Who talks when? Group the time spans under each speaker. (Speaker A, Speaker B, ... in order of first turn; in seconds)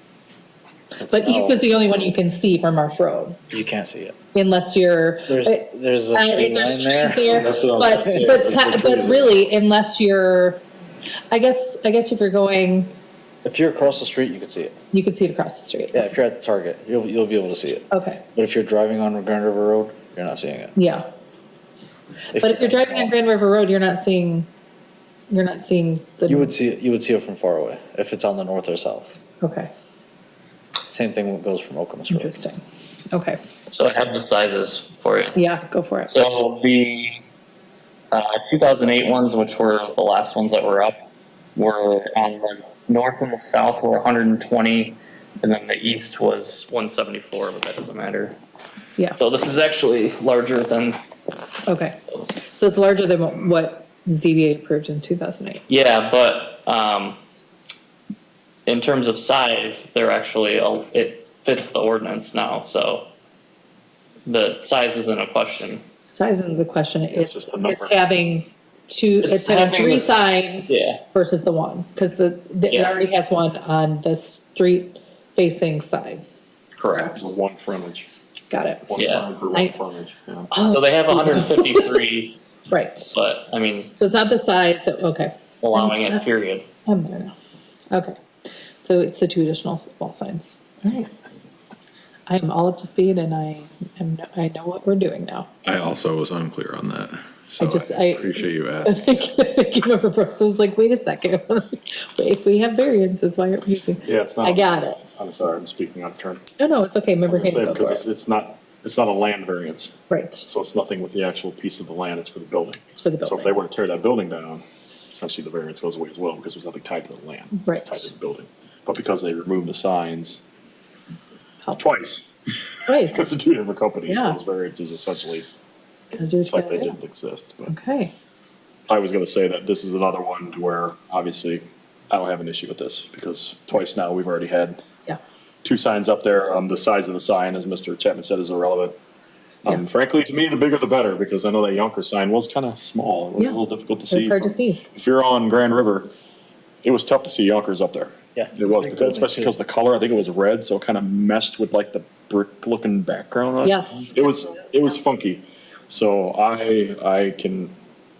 Speaker A: 1.0-2.0, 3.5-4.2, 5.3-8.2, 13.4-14.8, 15.9-20.7, 22.3-23.1, 26.2-29.2, 30.9-32.4, 148.3-149.5
Speaker B: 1.1-3.4, 4.3-10.6, 11.3-12.9, 14.9-16.1, 17.9-18.2, 20.8-21.1, 22.4-24.5, 25.3-26.5, 29.4-29.7, 32.1-32.6, 33.1-33.4, 35.3-36.1, 51.7-55.6, 66.1-76.2, 76.9-77.2, 78.5-79.7, 80.5-82.0, 82.7-83.2, 83.9-86.2, 86.9-87.3, 87.9-88.2, 88.8-91.1, 92.3-95.5, 97.6-105.0, 106.6-108.0, 110.1-110.5, 112.9-113.6, 117.5-118.1, 122.9-123.4, 124.1-124.4, 126.1-127.0, 127.7-128.1, 143.4-144.8, 153.6-154.1
Speaker C: 7.2-9.4, 67.1-68.1, 77.1-78.1, 78.9-80.5, 104.0-106.5, 107.3-120.4, 121.8-122.3, 122.9-125.5, 126.5-127.7, 128.9-134.8, 135.6-139.0, 139.6-146.1, 146.8-157.8
Speaker D: 33.7-35.4, 36.0-37.2, 38.1-41.0, 41.5-48.4, 49.1-51.0, 55.7-57.2, 58.7-63.1, 64.3-65.8, 69.2-71.0, 72.7-73.0, 76.8-77.2, 79.0-79.3, 80.7-82.4, 83.1-83.9, 85.6-86.7
Speaker E: 95.6-99.1